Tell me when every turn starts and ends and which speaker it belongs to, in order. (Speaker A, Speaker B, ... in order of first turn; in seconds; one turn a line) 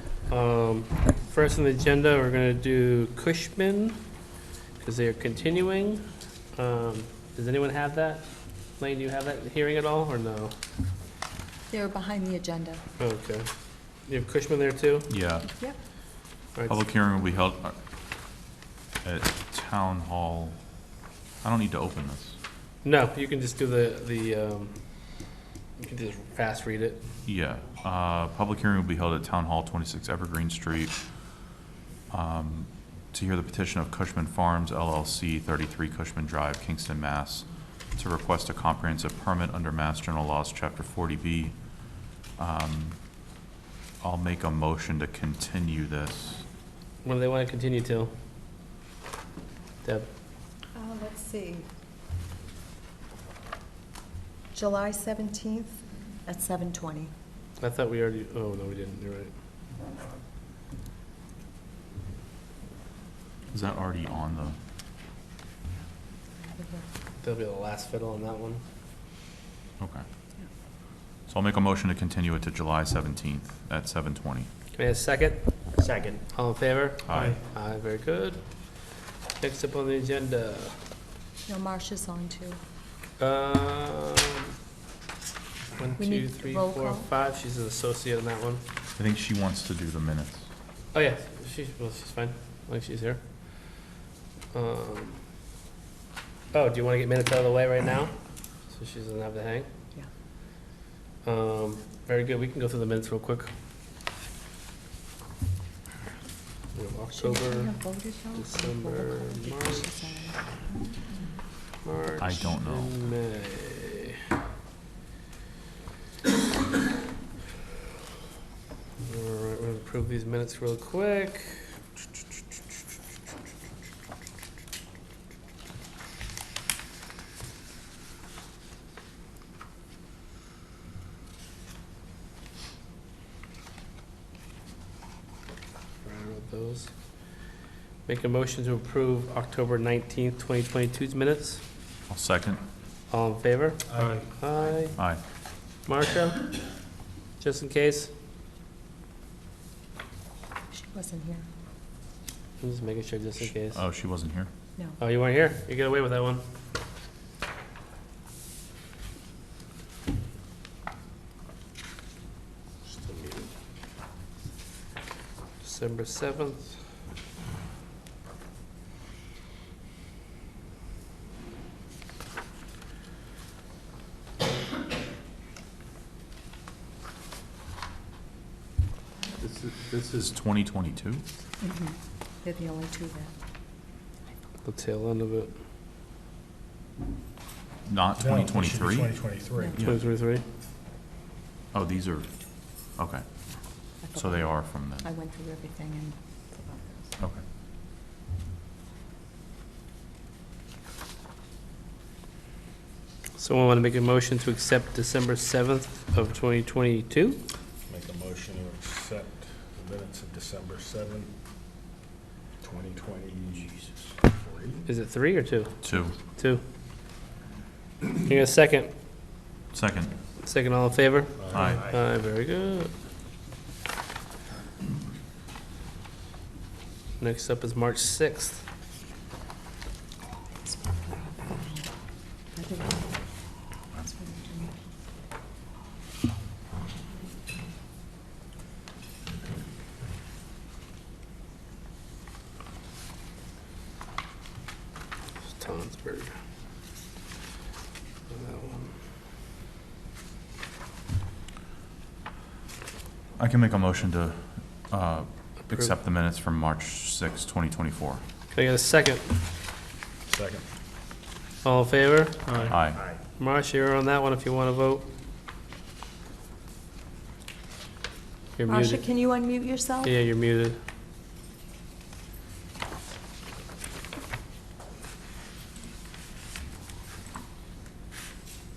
Speaker A: 0.2-4.0
Speaker A: 4.8-6.0
Speaker A: 6.5-10.6
Speaker B: 11.7-12.8
Speaker A: 13.0-13.5
Speaker A: 14.1-15.1
Speaker C: 15.1-15.4
Speaker A: 16.6-16.8
Speaker C: 16.7-17.8
Speaker C: 19.0-20.6
Speaker C: 21.4-22.4
Speaker A: 22.8-25.2
Speaker A: 25.8-27.0
Speaker C: 27.2-31.6
Speaker C: 32.1-43.0
Speaker C: 44.0-46.4
Speaker A: 47.0-48.1
Speaker B: 50.7-51.6
Speaker B: 54.5-57.1
Speaker A: 57.6-59.3
Speaker C: 63.5-64.5
Speaker B: 66.4-66.9
Speaker A: 67.2-68.6
Speaker C: 71.3-74.5
Speaker A: 74.7-78.8
Speaker C: 77.1-77.4
Speaker A: 79.4-80.8
Speaker B: 81.5-82.6
Speaker A: 83.2-84.5
Speaker A: 85.8-88.6
Speaker B: 86.0-87.1
Speaker C: 89.0-90.4
Speaker A: 90.9-93.8
Speaker A: 94.5-95.2
Speaker A: 96.5-98.1
Speaker A: 98.7-99.7
Speaker A: 101.2-103.5
Speaker A: 106.7-107.7
Speaker B: 107.1-111.0
Speaker A: 108.3-109.9
Speaker A: 111.8-114.2
Speaker C: 112.2-112.9
Speaker A: 119.0-121.8
Speaker A: 136.0-136.9
Speaker A: 138.0-141.6
Speaker C: 142.1-142.6
Speaker A: 143.1-145.0
Speaker D: 144.0-144.2
Speaker C: 144.9-145.2
Speaker A: 145.8-146.6
Speaker A: 147.4-148.1
Speaker B: 150.7-151.4
Speaker A: 152.6-153.8
Speaker C: 153.7-154.5
Speaker A: 155.0-156.4
Speaker D: 162.9-163.5
Speaker A: 165.6-166.8
Speaker C: 179.4-181.2
Speaker B: 181.6-183.3
Speaker A: 184.6-185.5
Speaker C: 187.8-189.1
Speaker D: 188.2-189.7
Speaker A: 189.8-190.4
Speaker C: 191.7-192.3
Speaker C: 192.9-193.2
Speaker B: 194.0-197.2
Speaker C: 194.1-195.1
Speaker A: 203.4-207.4
Speaker D: 207.9-211.3
Speaker D: 212.6-214.8
Speaker A: 214.8-216.6
Speaker C: 215.8-216.2
Speaker A: 218.2-218.9
Speaker C: 219.7-220.1
Speaker A: 220.4-222.9
Speaker D: 221.5-221.9
Speaker C: 221.5-221.8
Speaker A: 227.2-228.6
Speaker B: 230.7-231.8
Speaker B: 232.5-233.0
Speaker B: 233.9-234.7
Speaker A: 245.5-246.3
Speaker A: 248.3-248.9
Speaker C: 253.4-258.2
Speaker A: 258.5-259.3
Speaker D: 260.3-260.6
Speaker A: 261.6-262.6
Speaker D: 262.5-263.2
Speaker C: 262.7-263.0
Speaker A: 263.4-265.1
Speaker A: 268.6-269.0
Speaker B: 268.6-270.1
Speaker A: 270.0-270.8